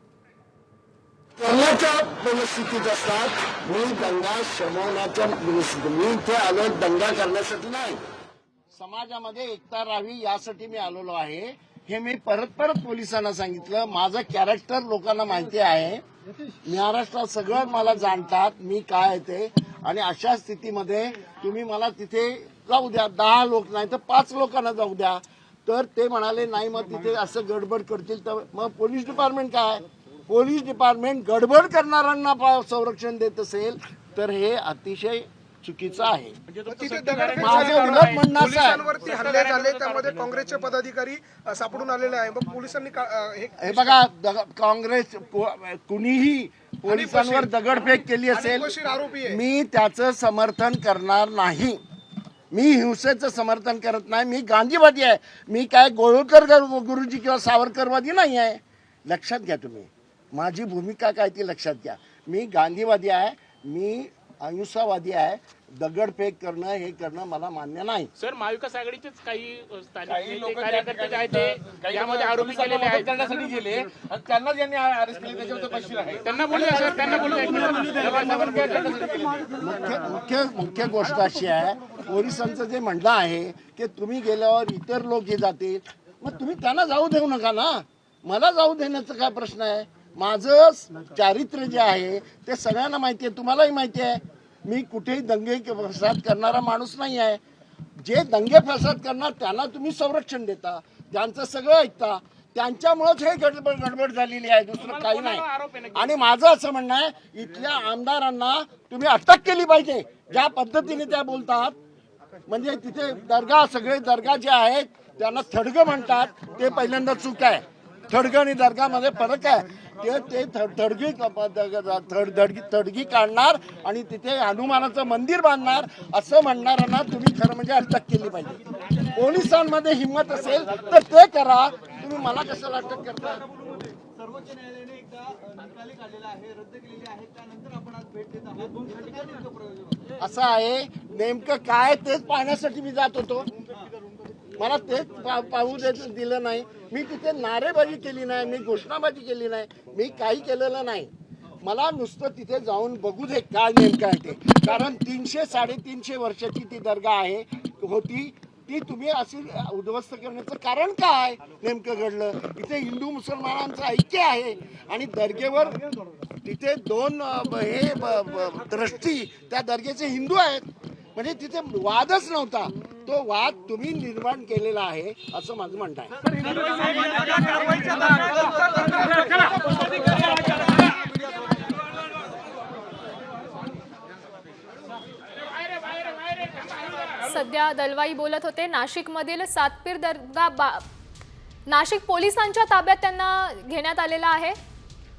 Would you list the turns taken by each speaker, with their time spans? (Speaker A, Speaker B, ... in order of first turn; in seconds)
Speaker A: 1.4-8.0, 8.7-16.0, 16.6-36.4, 37.4-38.8, 43.6-48.7, 49.2-51.8, 52.5-68.1, 79.6-97.4, 98.0-111.8, 112.5-133.4, 140.2-143.5, 144.5-151.1, 151.6-165.8, 166.4-176.2
Speaker B: 36.5-40.2, 68.2-73.2, 76.2-78.9, 104.8-106.1, 176.6-180.8, 185.4-187.2
Speaker C: 36.7-44.0, 46.9-47.5, 48.3-49.4
Speaker D: 70.0-79.5
Speaker E: 134.2-139.6
Speaker F: 187.2-190.8, 191.7-194.6